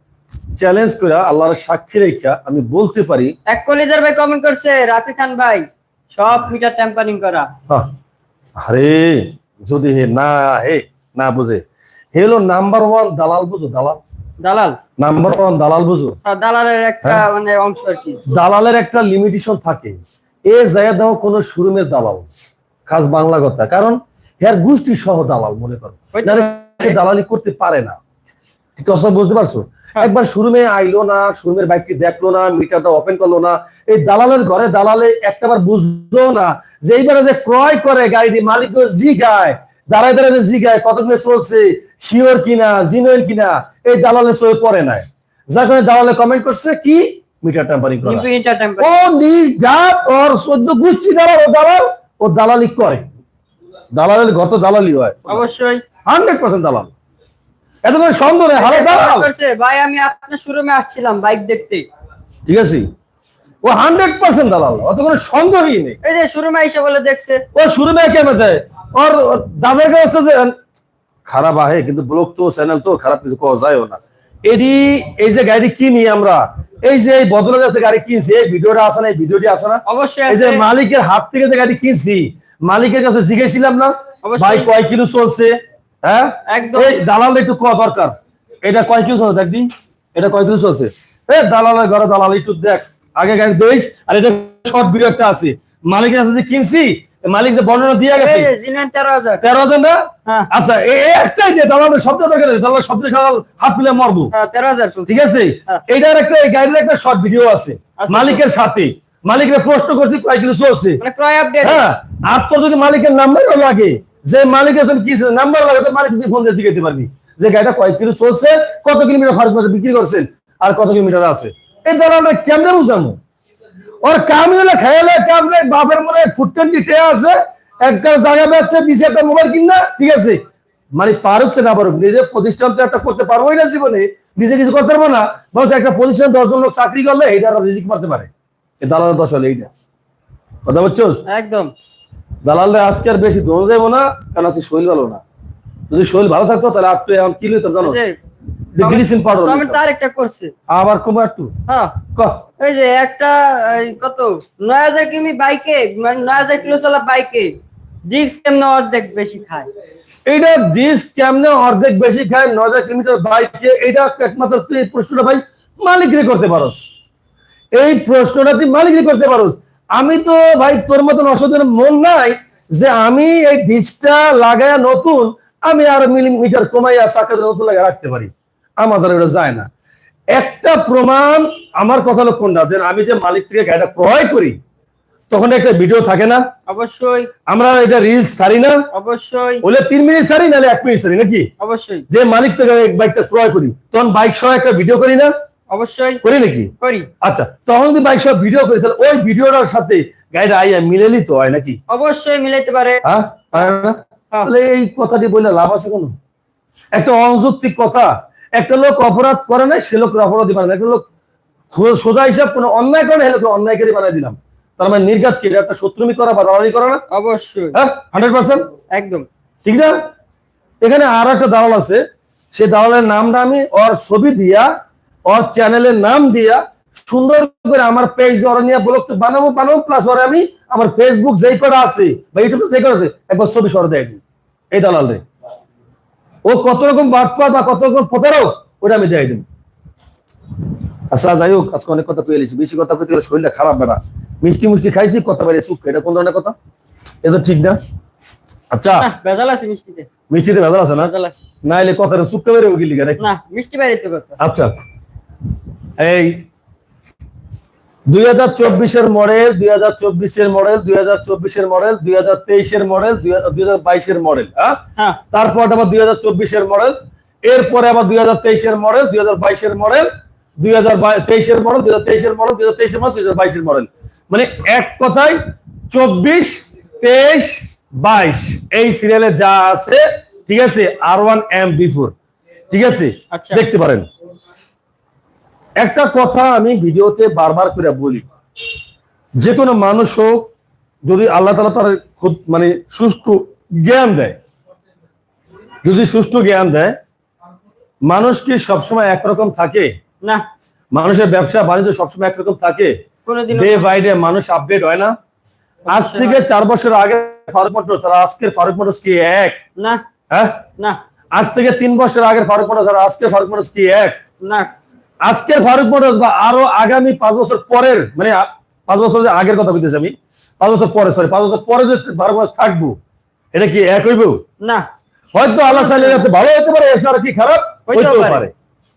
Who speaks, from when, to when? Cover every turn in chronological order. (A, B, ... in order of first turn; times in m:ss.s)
0:00.6-0:03.4 A
0:03.5-0:07.5 B
0:08.6-0:11.6 A
0:12.1-0:14.0 A
0:14.4-0:14.8 B
0:15.0-0:16.2 A
0:16.2-0:18.2 B
0:18.3-0:22.3 A
0:22.9-0:28.0 A
0:26.1-0:27.0 B
0:28.8-0:48.3 A
0:48.0-0:48.9 B
0:48.8-0:53.0 A
0:53.9-0:55.4 A
0:55.3-0:55.8 B
0:56.1-0:56.9 A
0:57.8-0:59.3 A
0:58.6-1:01.9 B
1:02.5-1:02.9 A
1:03.6-1:06.0 A
1:06.0-1:07.4 B
1:07.6-1:10.6 A
1:11.2-1:38.5 A
1:19.9-1:20.6 B
1:24.2-1:24.8 B
1:26.5-1:27.0 B
1:38.1-1:39.4 B
1:39.4-1:44.3 A
1:44.3-1:45.8 B
1:45.1-1:51.0 A
1:48.0-1:48.4 B
1:51.0-1:51.8 B
1:51.6-2:03.2 A
2:04.0-2:10.4 A
2:11.0-2:18.3 A
2:18.8-2:19.7 A
2:20.7-2:21.2 A
2:21.3-2:21.7 B
2:22.4-2:25.2 A
2:25.9-2:28.0 A
2:27.8-2:28.2 B
2:28.8-2:29.8 A
2:28.8-2:30.5 B
2:30.7-2:31.5 A
2:31.7-2:32.0 B
2:32.2-2:32.4 A
2:32.6-2:37.5 B
2:38.1-2:39.7 B
2:40.3-2:46.8 A
2:47.7-2:59.7 A
3:00.3-3:04.6 A
3:05.3-3:06.5 A
3:06.7-3:07.3 B
3:07.5-3:08.9 A
3:08.9-3:09.6 B
3:09.6-3:11.5 A
3:11.6-3:12.1 B
3:12.1-3:15.3 A
3:15.7-3:16.2 B
3:16.2-3:21.8 A
3:16.8-3:17.1 B
3:21.9-3:23.0 B
3:23.0-3:26.2 A
3:27.0-3:31.0 A
3:31.7-3:37.0 A
3:37.1-3:37.8 B
3:37.7-3:38.7 A
3:38.9-3:39.3 B
3:39.6-3:40.0 A
3:40.8-3:42.0 A
3:42.5-3:44.7 A
3:45.3-3:55.2 A
3:56.4-3:59.4 A
4:01.1-4:06.6 A
4:07.2-4:07.8 A
4:08.7-4:09.1 A
4:09.0-4:10.1 B
4:10.3-4:11.1 A
4:11.0-4:11.4 B
4:11.6-4:13.2 A
4:13.2-4:14.4 B
4:14.4-4:14.7 A
4:16.0-4:16.5 A
4:18.1-4:35.4 A
4:35.9-4:42.1 A
4:42.7-4:44.1 A
4:43.3-4:43.6 B
4:45.8-4:48.3 A
4:49.4-4:50.5 A
4:51.0-4:54.4 A
4:55.8-4:57.0 A
4:58.1-4:59.9 A
5:00.9-5:02.9 A
5:03.3-5:03.9 B
5:03.5-5:05.2 A
5:05.9-5:06.4 B
5:05.9-5:09.6 A
5:09.8-5:10.0 B
5:10.3-5:10.6 A
5:11.4-5:14.2 A
5:14.4-5:14.7 B
5:15.2-5:23.0 A
5:23.5-5:24.4 A
5:25.3-5:28.5 A
5:25.6-5:26.2 B
5:27.9-5:28.4 B